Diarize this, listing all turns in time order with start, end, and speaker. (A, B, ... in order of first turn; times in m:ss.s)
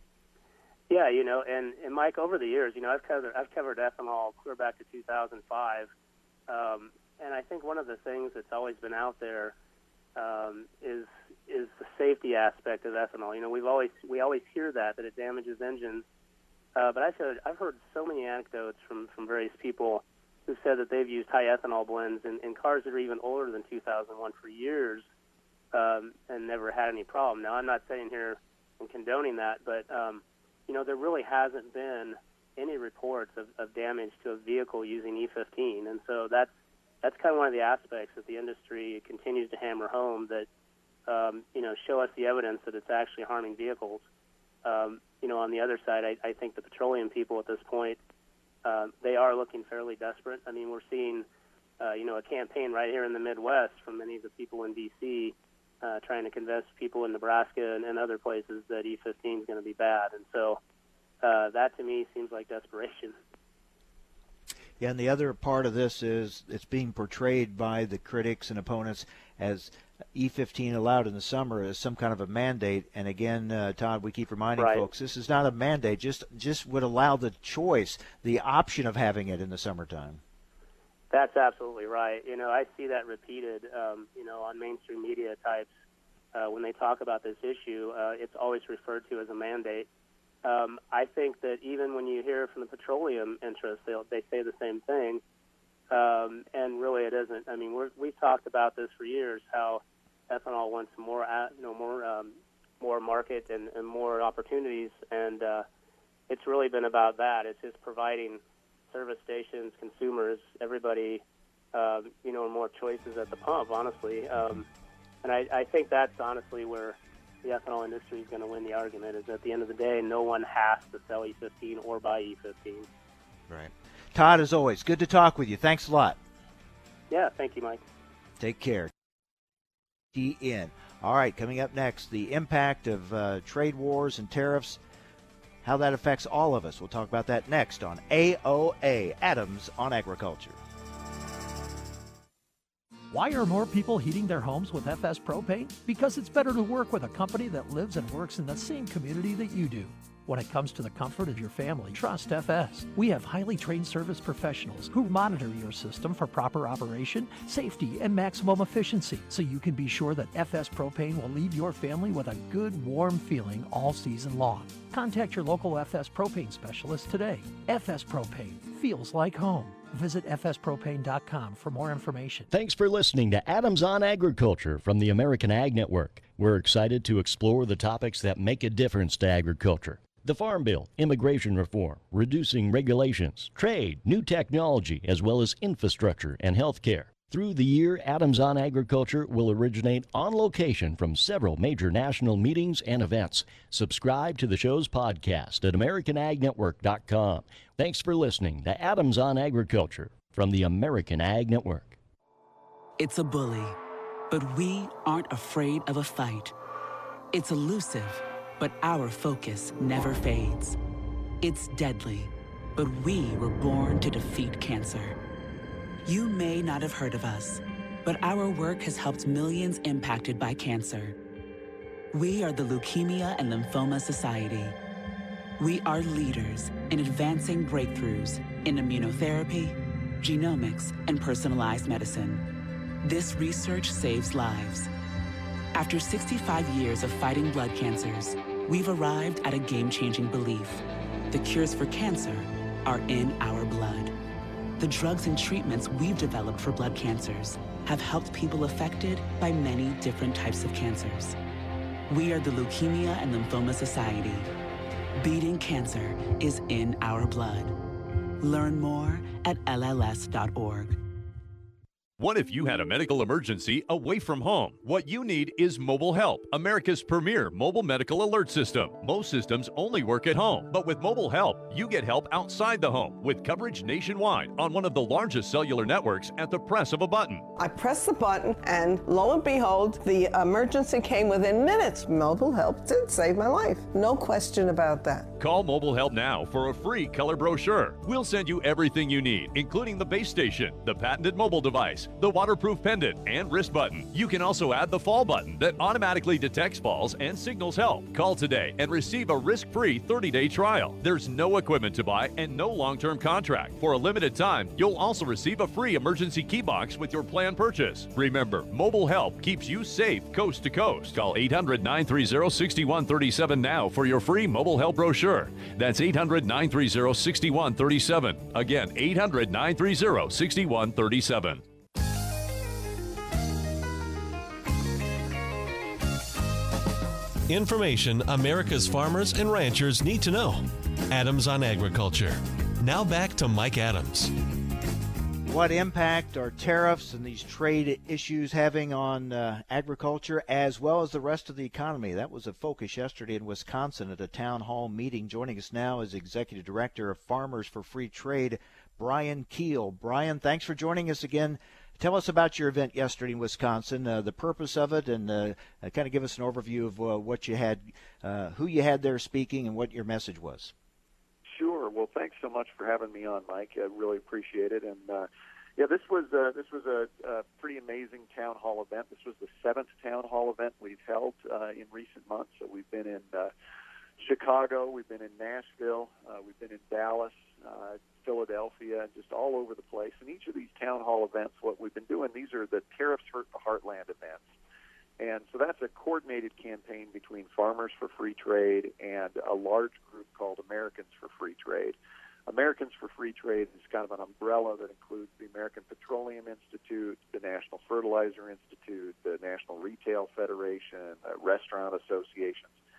0:00.9-0:05.9 A
0:06.5-0:09.6 A
0:10.2-0:16.0 A
0:16.8-0:25.1 A
0:25.7-0:36.5 A
0:37.0-0:40.5 A
0:41.1-0:44.1 A
0:44.6-0:48.0 A
0:48.6-0:51.3 A
0:51.8-1:00.6 A
1:01.2-1:03.2 A
1:04.8-1:20.2 B
1:14.6-1:14.8 A
1:21.1-1:25.7 A
1:26.3-1:29.9 A
1:30.4-1:35.2 A
1:35.9-1:45.7 A
1:46.3-1:54.7 A
1:55.2-2:02.9 A
2:03.5-2:06.2 B
2:07.1-2:07.8 A
2:08.4-2:08.9 B
2:10.1-2:14.8 B
2:15.6-2:20.6 B
2:23.1-2:52.5 C
2:52.5-3:22.0 D
3:23.0-3:23.8 E
3:24.3-3:26.5 E
3:27.3-3:30.8 E
3:31.4-3:35.2 E
3:36.0-3:41.2 E
3:42.1-3:44.8 E
3:45.6-3:52.4 E
3:53.0-3:54.9 E
3:55.7-4:04.1 E
4:04.8-4:11.4 E
4:12.1-4:14.5 E
4:15.2-4:17.8 E
4:18.4-4:21.0 E
4:22.2-4:37.5 F
4:37.6-4:45.3 G
4:45.4-5:21.6 F
5:27.5-5:34.3 H
5:35.5-6:00.7 B
6:01.5-6:13.5 I
6:14.2-6:24.5 I
6:25.2-6:42.8 I